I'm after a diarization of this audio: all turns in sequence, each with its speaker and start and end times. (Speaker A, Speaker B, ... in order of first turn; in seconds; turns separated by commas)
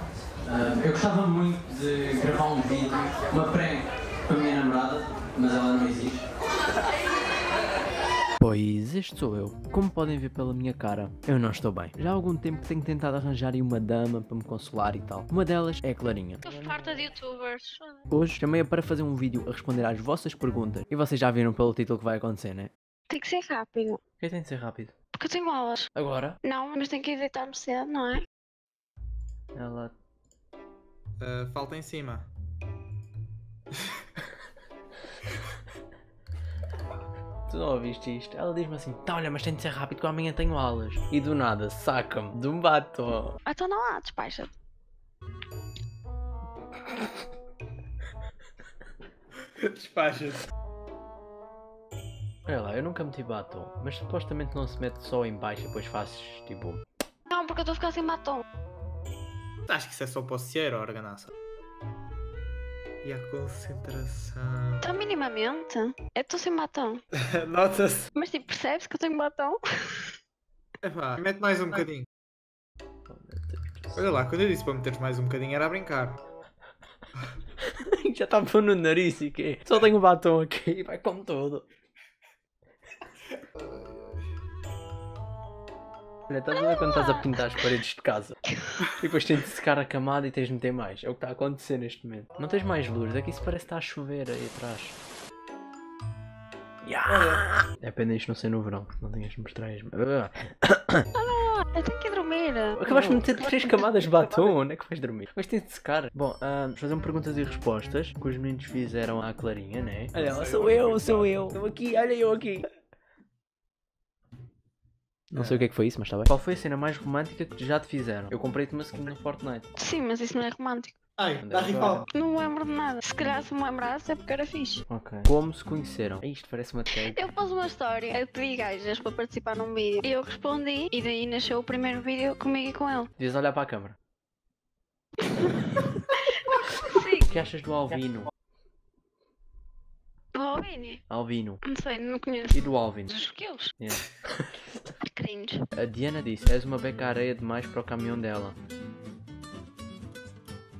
Speaker A: 0.4-6.2, Speaker A: 8.4-16.4, Speaker B: 16.4-18.0, Speaker A: 18.1-22.7, Speaker B: 23.1-24.0, Speaker A: 24.2-24.9, Speaker B: 25.2-25.9, Speaker A: 25.9-26.4, Speaker B: 26.4-28.2, Speaker A: 29.5-29.9, Speaker C: 31.2-32.3, Speaker A: 37.5-43.4, Speaker B: 43.5-44.5, Speaker C: 49.6-50.4, Speaker A: 52.5-56.8, Speaker B: 57.3-58.4, Speaker C: 59.7-61.3, Speaker C: 63.0-64.9, Speaker B: 64.8-67.0, Speaker C: 67.1-68.1, Speaker B: 68.1-70.1, Speaker C: 70.8-72.1, Speaker A: 73.1-74.0, Speaker C: 73.9-76.2, Speaker A: 77.6-81.7, Speaker C: 83.4-84.3, Speaker A: 86.3-88.4, Speaker B: 86.5-87.5, Speaker A: 88.9-95.0, Speaker A: 96.8-101.1, Speaker C: 97.0-97.4, Speaker B: 101.1-104.5, Speaker A: 102.8-112.7, Speaker C: 110.1-111.6, Speaker A: 115.3-119.7, Speaker C: 115.3-115.7, Speaker B: 119.8-121.0, Speaker C: 121.2-122.1, Speaker A: 121.4-122.1, Speaker B: 122.1-124.8, Speaker A: 124.9-127.2, Speaker B: 127.0-133.1, Speaker A: 133.2-134.0, Speaker B: 135.2-137.2, Speaker A: 137.2-138.3, Speaker B: 140.3-141.0, Speaker A: 141.1-141.6, Speaker B: 141.6-143.7, Speaker A: 142.5-143.1, Speaker A: 143.8-144.5, Speaker B: 145.0-145.7, Speaker A: 145.7-148.6